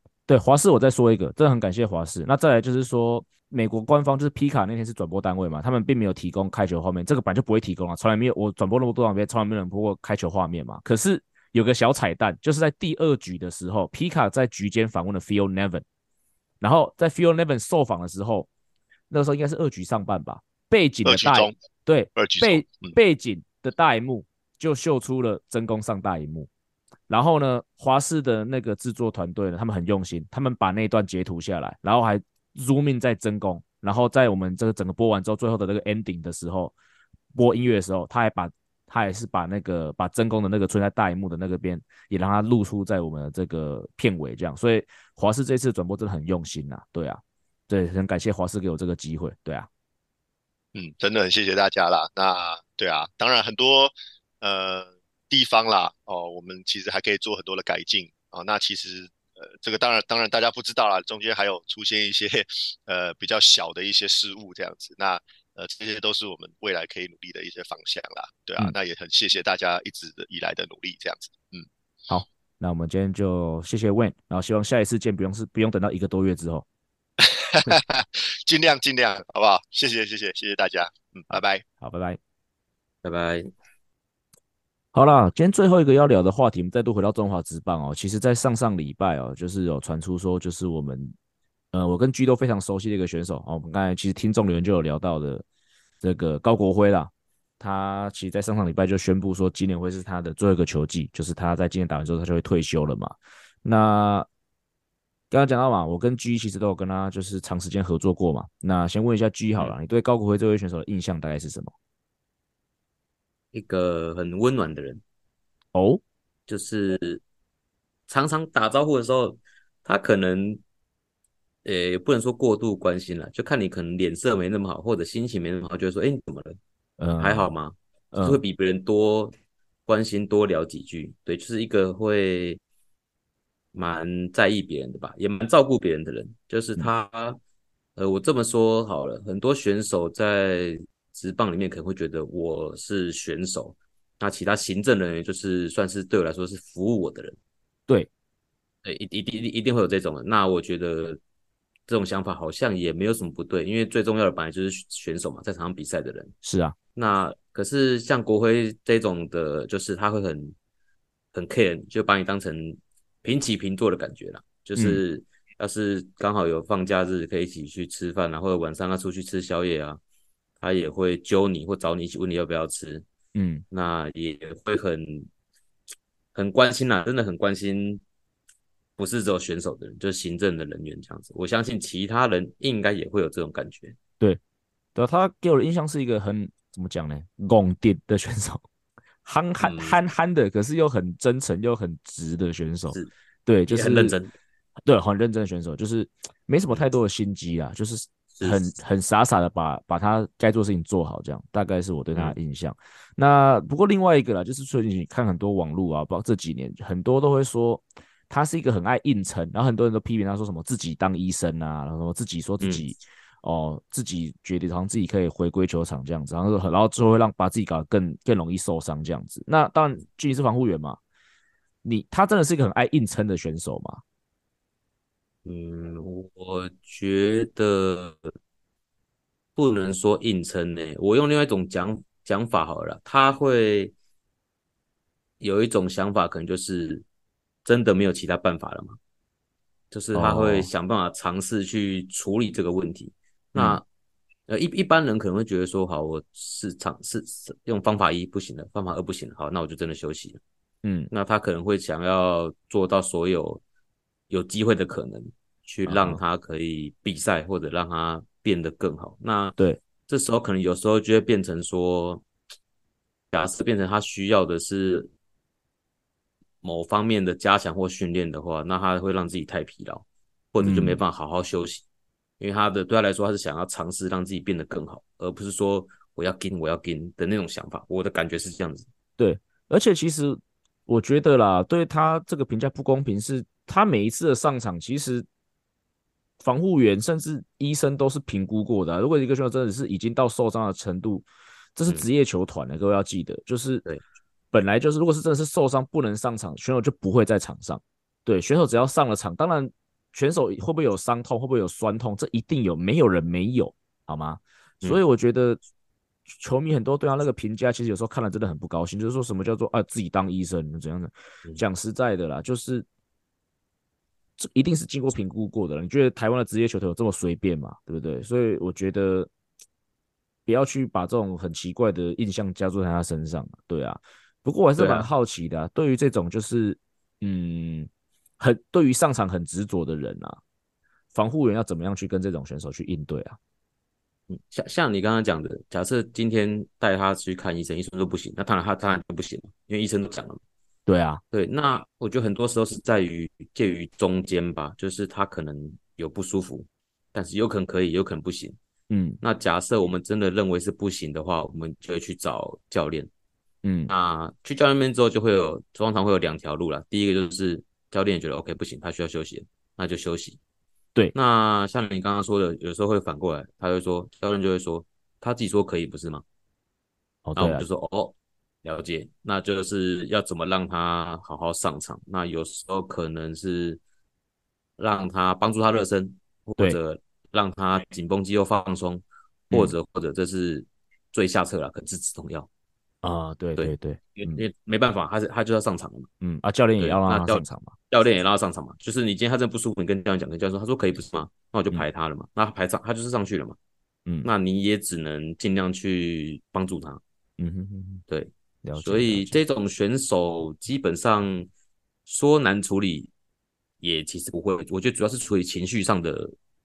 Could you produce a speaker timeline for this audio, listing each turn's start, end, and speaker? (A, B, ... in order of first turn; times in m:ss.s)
0:00.3-0:15.8 A
0:16.6-0:18.5 A
0:19.1-0:26.5 A
0:21.0-0:21.5 B
0:22.1-0:23.0 B
0:27.1-0:36.7 A
0:37.3-0:49.7 A
0:50.7-1:11.6 B
1:12.1-1:16.6 A
1:17.2-1:21.6 B
1:21.8-1:22.2 A
1:23.0-1:23.5 C
1:24.9-1:31.1 A
1:31.7-1:35.4 A
1:36.0-1:44.3 A
1:45.3-1:51.7 A
1:53.5-1:55.0 C
1:55.7-1:56.0 A
1:56.5-1:57.2 C
1:58.1-2:00.6 C
2:01.6-2:06.6 C
2:07.0-2:07.5 A
2:07.2-2:09.3 C
2:08.1-2:08.4 A
2:09.9-2:12.6 C
2:13.7-2:17.4 C
2:18.0-2:27.4 C
2:28.8-2:31.2 C
2:31.9-2:36.3 C
2:36.4-2:36.7 A
2:36.9-2:40.6 C
2:41.3-2:50.0 C
2:44.8-2:45.0 A
2:50.6-2:53.0 C
2:53.3-2:53.6 A
2:53.7-2:55.3 C
2:56.3-2:58.0 C
2:59.0-3:04.0 C
3:04.9-3:08.6 A
3:09.2-3:14.2 A
3:09.6-3:10.0 C
3:13.7-3:14.3 C
3:14.8-3:41.0 A
3:18.4-3:18.6 C
3:32.6-3:32.8 C
3:41.8-3:44.0 A
3:45.4-3:48.2 C
3:49.6-3:53.9 C
3:55.4-3:57.0 C
3:57.6-3:59.0 C
3:59.9-4:03.8 C
4:00.1-4:00.7 A
4:03.5-4:03.8 A
4:04.5-4:10.4 C
4:10.8-4:11.1 A
4:11.1-4:13.6 C
4:14.3-4:19.6 C
4:15.9-4:16.2 A
4:20.1-4:22.2 C
4:23.3-4:25.1 C
4:26.6-4:31.8 C
4:30.6-4:31.0 A
4:32.4-4:38.9 C
4:39.2-4:45.2 A
4:46.4-4:53.8 A
4:54.5-5:05.6 A
5:06.3-5:12.8 A
5:14.4-5:19.3 A
5:20.4-5:27.9 A
5:24.8-5:25.1 C
5:28.4-5:30.4 A
5:31.1-5:33.4 A
5:34.3-5:40.4 C
5:40.9-5:41.2 A
5:41.3-5:48.6 C
5:48.9-5:49.2 A
5:49.2-5:53.1 C
5:53.6-5:53.9 A
5:53.9-6:00.4 C
6:01.1-6:06.2 C
6:07.2-6:07.6 A
6:07.4-6:13.8 C
6:14.8-6:22.5 C
6:19.5-6:19.7 A
6:23.0-6:24.4 A
6:23.6-6:26.1 C
6:26.2-6:27.7 A
6:26.8-6:33.6 C
6:34.2-6:37.0 C
6:37.4-6:38.0 A
6:38.1-6:41.5 C
6:38.6-6:39.4 A
6:42.0-6:43.1 C
6:43.8-6:46.3 C